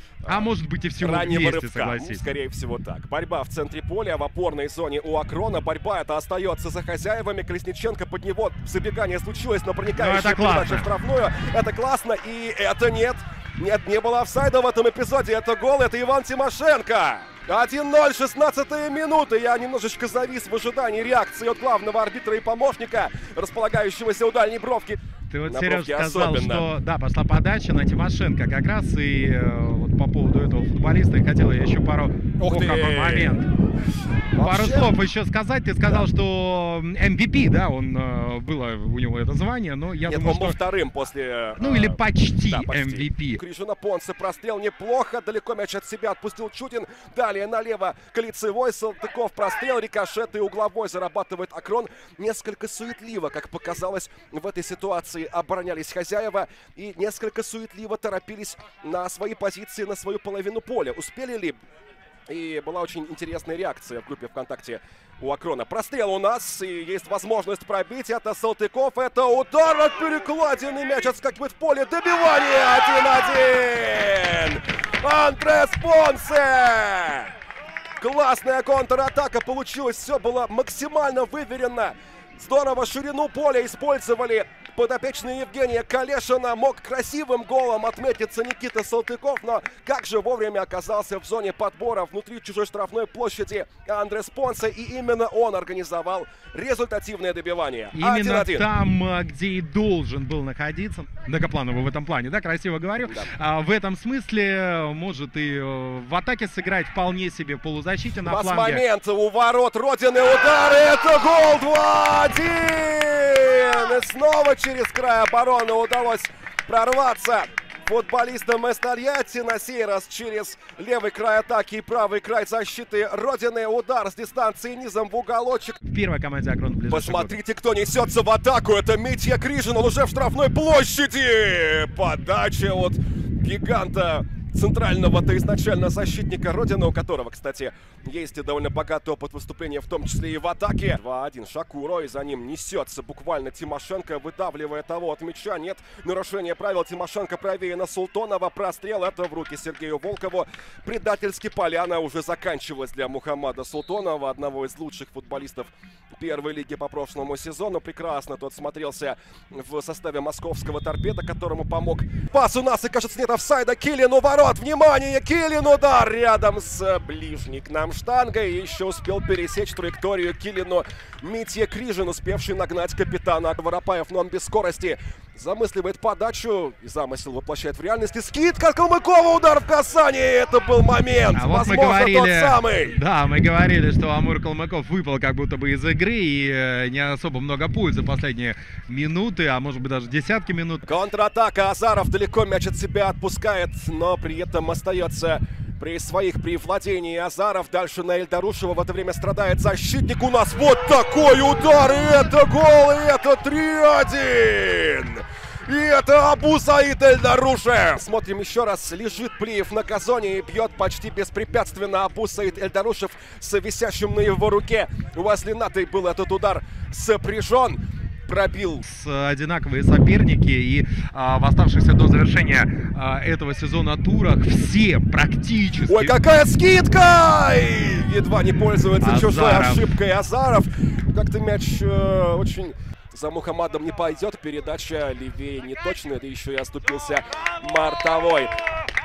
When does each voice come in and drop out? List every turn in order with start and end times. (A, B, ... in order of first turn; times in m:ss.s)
0:00.2-0:26.7 A
0:00.2-0:02.2 B
0:10.0-0:10.9 B
0:25.3-0:33.4 B
0:32.4-0:33.4 A
0:34.3-0:34.9 A
0:34.3-0:40.6 B
0:40.1-1:01.6 A
0:41.6-0:43.4 B
1:02.3-1:17.3 A
1:18.0-1:38.6 A
1:37.9-1:48.8 B
1:48.2-2:05.8 A
2:05.9-2:07.4 B
2:06.9-3:03.0 A
3:01.3-3:10.8 B
3:10.8-3:38.8 A
3:38.8-3:46.1 B
3:45.9-3:58.5 A
3:49.0-3:50.0 B